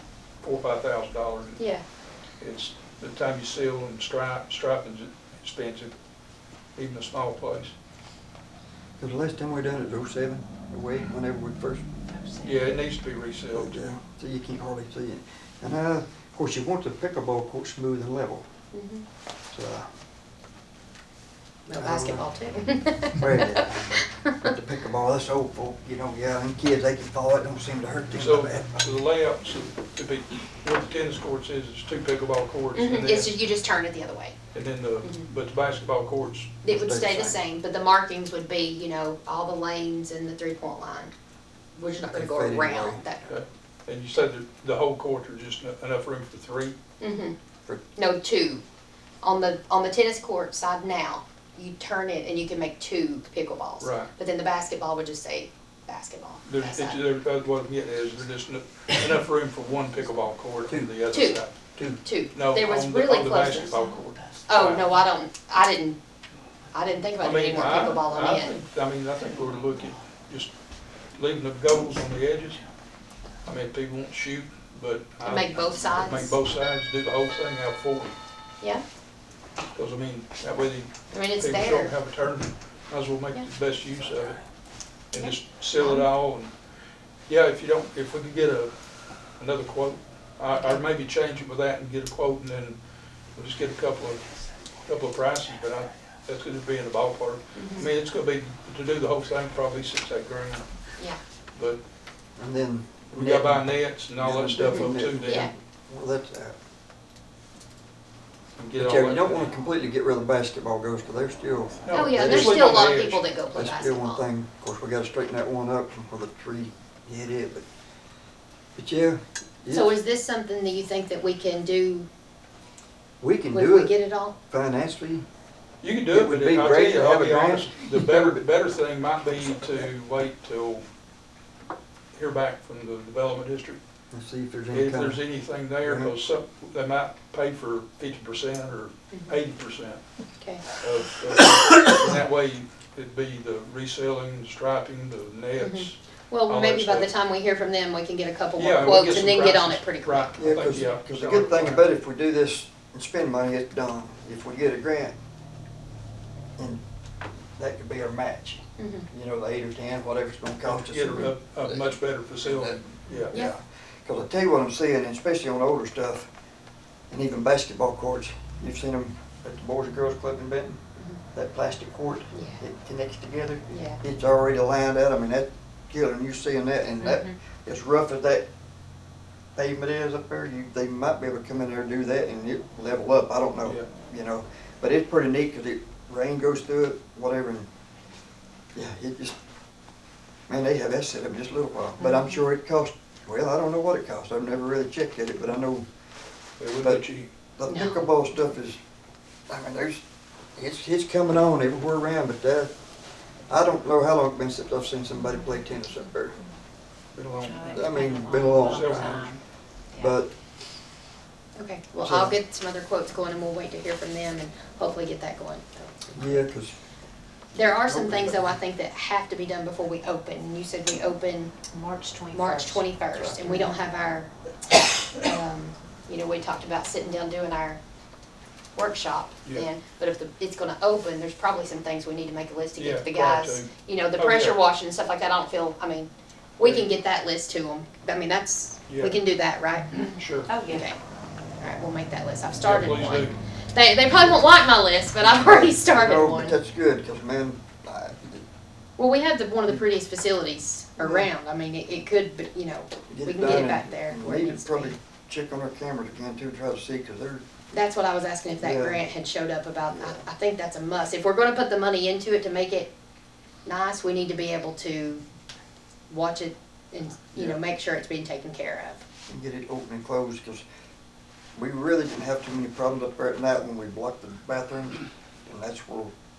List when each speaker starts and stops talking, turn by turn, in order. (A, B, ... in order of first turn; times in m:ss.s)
0:00.4-0:01.6 A
0:01.6-0:01.8 B
0:02.4-0:05.9 A
0:06.8-0:07.7 A
0:09.0-0:11.8 C
0:12.1-0:12.6 D
0:12.4-0:14.0 A
0:13.5-0:18.4 C
0:18.7-0:19.0 B
0:19.5-0:19.9 C
0:21.6-0:24.4 B
0:21.7-0:22.2 C
0:23.1-0:28.9 C
0:28.2-0:33.3 A
0:32.7-0:34.4 B
0:34.5-0:36.6 A
0:36.6-0:41.1 B
0:36.6-0:37.4 C
0:41.7-0:43.3 B
0:42.1-0:43.0 C
0:43.3-0:46.8 A
0:47.0-0:47.3 B
0:47.9-0:48.6 B
0:49.2-0:57.0 B
0:53.8-0:54.1 A
0:56.4-1:01.5 A
1:01.1-1:01.4 B
1:02.0-1:03.8 B
1:02.3-1:04.9 A
1:04.5-1:06.0 B
1:06.7-1:08.6 B
1:07.2-1:10.5 A
1:11.1-1:12.6 A
1:13.4-1:18.2 A
1:15.2-1:16.4 B
1:19.7-1:24.4 A
1:21.1-1:21.9 B
1:25.1-1:26.5 A
1:25.8-1:26.0 B
1:27.3-1:28.7 A
1:29.4-1:32.8 A
1:33.3-1:34.2 A
1:34.8-1:40.7 A
1:37.5-1:37.8 B
1:41.5-1:41.8 A
1:42.4-1:46.5 C
1:43.1-1:45.5 A
1:44.6-1:45.5 B
1:48.6-1:49.5 A
1:48.8-1:52.8 C
1:51.8-1:53.3 A
1:51.9-1:54.2 B
1:53.5-1:57.6 C
1:58.8-1:59.9 C
1:59.7-2:02.1 B
2:03.2-2:05.2 C
2:03.5-2:04.3 B
2:05.8-2:10.8 A
2:06.1-2:08.4 C
2:12.1-2:13.8 A
2:14.1-2:15.2 C
2:14.7-2:20.0 A
2:15.8-2:16.1 C
2:19.1-2:19.4 B
2:20.4-2:20.7 B
2:20.8-2:27.1 A
2:25.6-2:30.4 B
2:28.6-2:31.9 A
2:30.4-2:35.1 C
2:37.6-2:46.3 C
2:38.8-2:39.1 B
2:40.6-2:43.4 A
2:47.1-2:50.8 C
2:51.3-2:58.4 C
2:52.3-2:52.6 B
2:53.7-2:54.0 B
2:57.0-2:57.3 B
2:59.6-3:07.7 C
3:08.7-3:09.4 C
3:10.5-3:15.8 C
3:12.0-3:12.4 B
3:16.6-3:17.3 A
3:17.6-3:18.8 C
3:17.7-3:18.0 B
3:19.5-3:20.0 C
3:20.6-3:22.7 C
3:23.5-3:26.4 C
3:27.1-3:27.7 A
3:27.4-3:29.4 D
3:27.6-3:29.3 C
3:28.6-3:29.3 A
3:29.9-3:30.3 C
3:31.6-3:36.4 B
3:32.0-3:32.3 C
3:36.1-3:36.7 C
3:37.5-3:41.6 B
3:37.9-3:38.5 C
3:41.7-3:42.8 D
3:42.3-3:47.8 B
3:43.1-3:43.4 C
3:43.4-3:43.7 D
3:48.8-4:01.0 B
3:52.8-3:54.6 A
3:56.6-3:56.8 A
3:58.9-3:59.2 A
4:00.2-4:00.5 A
4:00.5-4:00.9 D
4:01.6-4:06.6 B
4:02.6-4:03.4 A
4:05.4-4:08.4 C
4:09.0-4:14.9 B
4:11.0-4:11.3 C
4:13.1-4:17.4 C
4:17.7-4:22.9 B
4:18.6-4:19.0 C
4:19.9-4:20.2 C
4:23.6-4:25.2 B
4:26.1-4:29.0 B
4:29.3-4:30.6 C
4:31.5-4:36.1 C